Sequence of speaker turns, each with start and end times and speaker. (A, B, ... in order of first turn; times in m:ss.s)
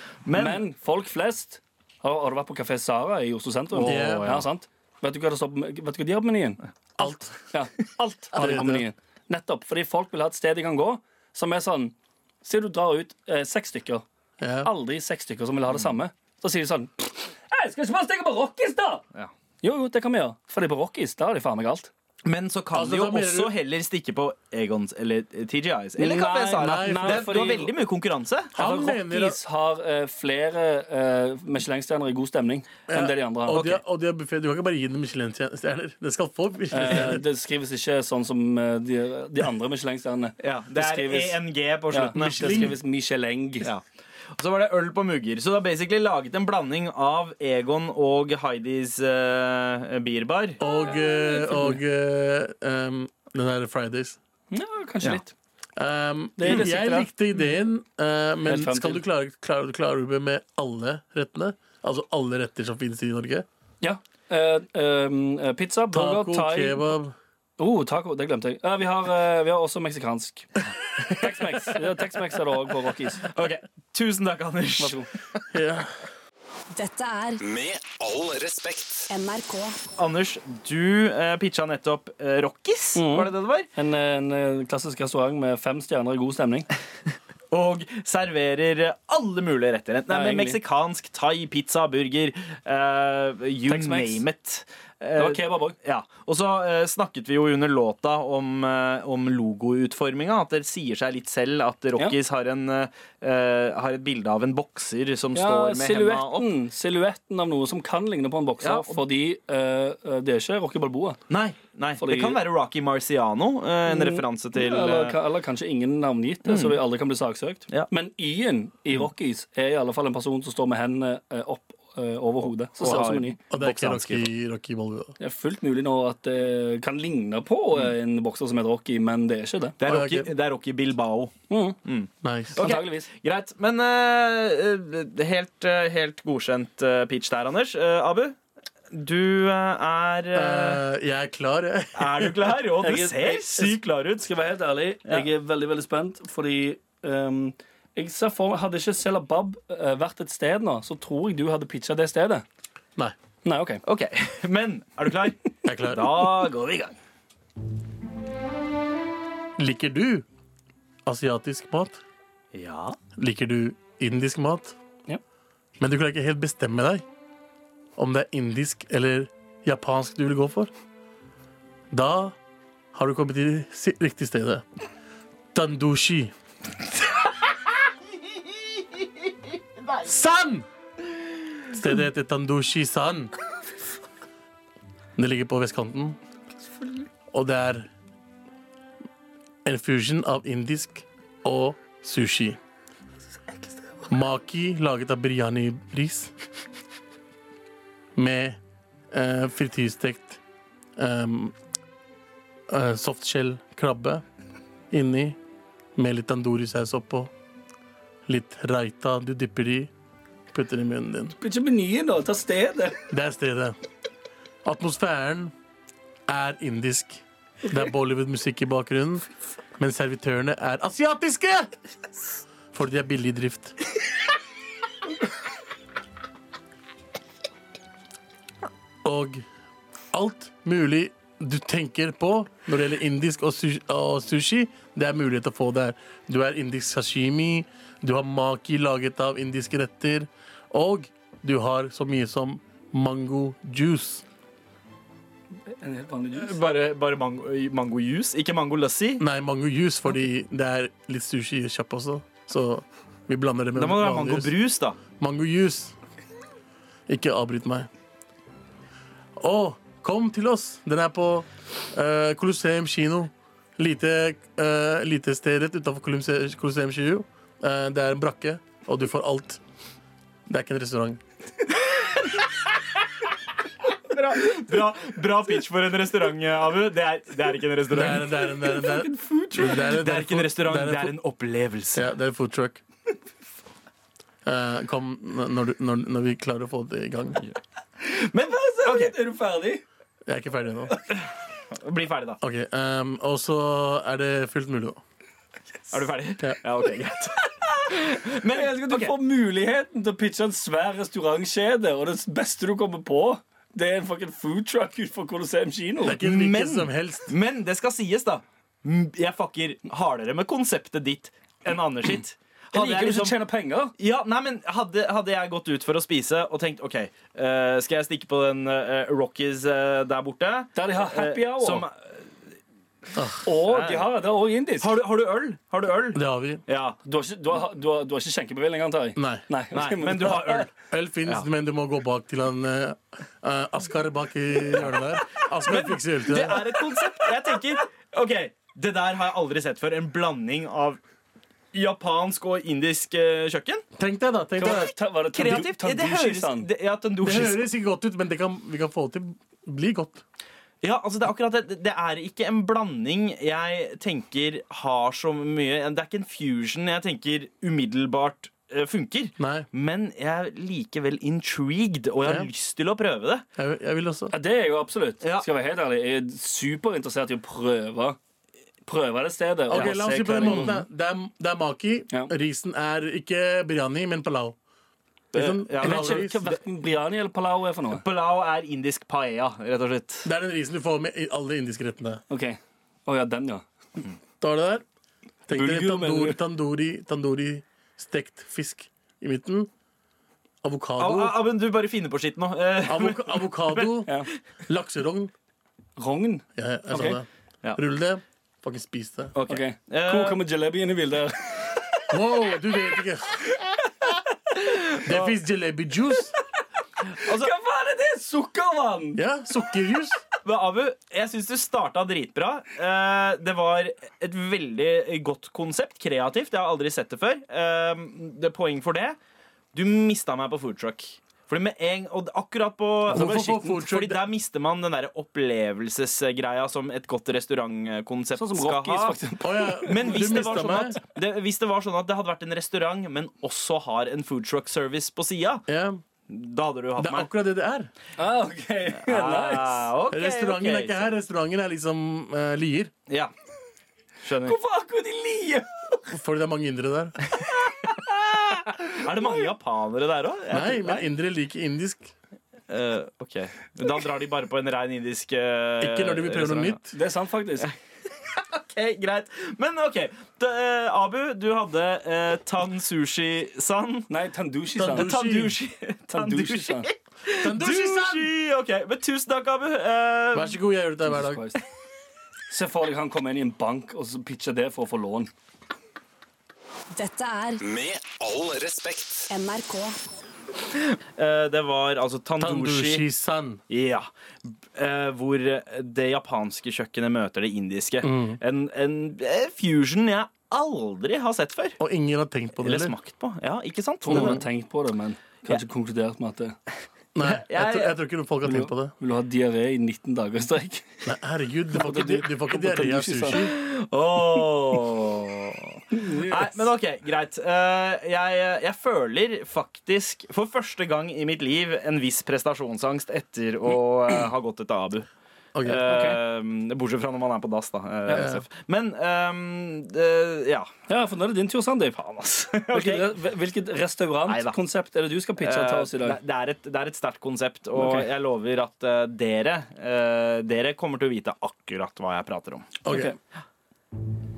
0:00.2-0:00.6 A
0:00.3-0:14.0 B
0:03.7-0:04.4 A
0:03.8-0:04.4 C
0:07.0-0:07.3 C
0:08.3-0:08.8 C
0:14.4-0:14.7 C
0:14.6-0:19.0 B
0:19.6-0:21.9 B
0:22.2-0:28.5 A
0:22.7-0:23.5 C
0:26.0-0:27.7 B
0:26.6-0:27.5 C
0:28.5-0:29.4 C
0:28.6-0:33.7 B
0:32.9-0:37.2 C
0:33.5-0:33.8 A
0:36.7-0:41.4 B
0:40.4-0:42.8 A
0:41.9-0:43.7 B
0:42.1-0:42.8 C
0:44.4-0:50.6 A
0:50.6-0:54.2 C
0:50.7-0:51.8 B
0:54.5-0:55.3 B
0:55.8-1:03.4 C
0:56.4-0:57.1 B
0:58.4-0:59.0 B
1:03.8-1:06.9 B
1:05.9-1:07.1 C
1:07.6-1:10.5 B
1:11.0-1:11.6 A
1:11.1-1:13.2 B
1:13.2-1:15.0 A
1:14.8-1:15.1 B
1:15.5-1:15.9 C
1:16.7-1:17.4 D
1:17.4-1:19.1 E
1:19.1-1:19.8 D
1:20.0-1:23.7 A
1:22.9-1:26.7 B
1:27.5-1:46.5 A
1:30.1-1:30.6 B
1:33.7-1:34.2 B
1:35.2-1:35.8 B
1:45.3-1:51.2 B
1:48.6-1:49.0 A
1:51.3-1:55.2 A
1:52.0-1:52.4 B
1:53.9-2:03.4 B
1:56.4-1:56.8 A
2:02.8-2:04.3 A
2:03.5-2:05.1 C
2:05.2-2:09.8 B
2:09.8-2:18.4 A
2:09.8-2:10.3 C
2:11.5-2:11.8 B
2:12.2-2:12.6 C
2:12.5-2:13.1 B
2:18.9-2:20.8 A
2:20.3-2:22.5 C
2:22.0-2:24.3 A
2:22.8-2:32.4 B
2:33.4-2:33.8 B
2:33.8-2:36.9 A
2:35.6-2:36.1 C
2:39.6-2:40.2 C
2:41.0-2:42.0 C
2:42.5-2:43.0 A
2:43.2-2:44.8 C
2:45.8-2:47.0 C
2:48.0-2:50.7 C
2:51.9-2:52.4 C
2:52.9-2:54.6 C
2:55.5-2:56.3 C
3:00.0-3:00.6 C
3:01.7-3:03.3 C
3:05.2-3:06.2 C
3:07.3-3:07.9 C
3:09.6-3:12.6 C
3:14.1-3:16.3 C
3:18.2-3:18.6 C
3:19.1-3:20.4 C
3:21.0-3:21.5 C
3:22.7-3:24.2 C
3:24.9-3:25.4 C
3:26.0-3:27.3 C
3:28.3-3:29.9 C
3:30.5-3:31.3 C
3:31.4-3:33.0 B
3:33.1-3:33.8 C
3:34.6-3:35.5 C
3:36.3-3:39.2 C
3:39.8-3:41.7 C
3:42.7-3:43.8 C
3:49.0-3:49.4 C
3:50.1-4:04.2 C
4:05.7-4:06.6 B
4:06.3-4:09.2 A
4:09.2-4:14.5 C
4:13.7-4:15.0 A
4:15.2-4:15.9 C
4:17.1-4:17.9 C
4:19.4-4:29.6 C
4:30.5-4:31.2 C
4:34.1-4:38.5 A
4:37.9-4:41.1 C
4:38.8-4:39.8 B
4:39.7-4:42.1 A
4:41.9-4:42.8 C
4:44.4-4:47.4 C
4:48.0-4:49.1 A
4:48.6-4:49.8 B
4:50.2-4:51.0 C
4:51.1-4:52.4 A
4:52.4-4:55.0 C
4:55.9-4:59.1 A
4:58.5-5:06.2 B
5:06.0-5:07.3 C
5:06.2-5:13.3 A
5:12.7-5:13.9 B
5:14.0-5:22.2 A
5:20.7-5:21.8 B
5:23.1-5:23.4 C
5:23.4-5:24.9 B
5:23.6-5:24.1 A
5:24.8-5:27.0 A
5:26.1-5:26.6 C
5:27.0-5:30.7 B
5:29.2-5:29.4 C
5:29.7-5:30.7 A
5:30.9-5:36.8 C
5:35.6-5:41.0 A
5:41.7-5:43.8 A
5:44.0-5:44.9 C
5:44.6-5:46.7 B
5:45.3-5:47.6 A
5:47.2-5:50.2 C
5:50.8-6:03.4 A
5:59.4-5:59.7 C
6:03.6-6:04.3 C
6:04.3-6:08.2 B
6:08.8-6:10.8 B
6:09.7-6:14.6 C
6:09.7-6:10.8 A
6:15.3-6:16.4 C
6:15.3-6:16.5 A
6:15.8-6:18.0 B
6:17.9-6:20.3 A
6:20.2-6:22.2 C
6:22.3-6:23.6 B
6:24.4-6:24.8 C
6:25.5-6:29.7 C
6:25.5-6:26.4 B
6:30.6-6:31.4 C
6:31.0-6:34.0 A
6:32.8-6:34.1 C
6:34.7-6:35.3 C
6:36.0-6:37.2 B
6:36.6-6:39.3 C
6:39.3-6:40.4 A
6:39.4-6:41.8 B
6:42.1-6:43.6 C
6:44.6-6:45.3 A
6:45.0-6:46.3 C
6:47.1-6:47.5 A
6:47.3-6:49.2 B
6:49.2-6:50.2 C
6:50.4-6:59.2 A
6:59.7-7:09.2 A
7:03.1-7:04.2 C
7:03.2-7:03.4 B
7:08.4-7:10.4 B
7:09.4-7:11.0 C
7:09.8-7:15.6 A
7:15.7-7:16.0 C
7:16.3-7:17.3 A
7:17.0-7:17.9 C
7:18.2-7:19.9 B
7:19.0-7:21.1 A
7:20.1-7:22.9 C
7:24.2-7:24.6 A
7:24.4-7:26.0 B
7:26.1-7:27.2 C
7:27.4-7:27.9 A
7:28.4-7:31.0 A
7:30.5-7:32.1 C
7:32.7-7:36.8 A
7:35.8-7:36.9 C
7:36.9-7:37.7 B
7:38.2-7:44.1 A
7:44.1-7:45.1 B
7:44.8-7:45.6 C
7:44.8-7:50.6 A
7:46.1-7:46.9 B
7:47.4-7:48.3 C
7:50.3-7:51.4 C
7:51.0-7:51.6 B
7:52.5-7:55.3 B
7:56.9-7:57.6 D
7:57.6-7:59.3 E
7:59.3-8:00.0 D
8:00.7-8:03.0 A
8:02.4-8:03.6 C
8:03.7-8:04.1 A
8:04.7-8:11.8 A
8:08.0-8:08.4 C
8:11.8-8:12.9 C
8:12.6-8:14.4 A
8:14.0-8:16.6 B
8:14.1-8:14.4 C
8:17.1-8:18.9 C
8:17.2-8:17.9 A
8:18.4-8:20.9 B
8:21.0-8:23.5 C
8:21.7-8:23.4 B
8:23.3-8:35.1 A
8:25.9-8:26.4 B
8:35.5-8:35.8 C
8:35.6-8:40.7 A
8:35.8-8:36.2 B
8:38.1-8:38.4 C
8:40.9-8:42.0 B
8:42.0-8:43.1 A
8:42.7-8:46.2 B
8:44.3-8:44.6 A
8:45.4-8:52.7 A
8:47.8-8:48.1 B
8:52.8-8:53.1 C
8:52.9-8:53.2 B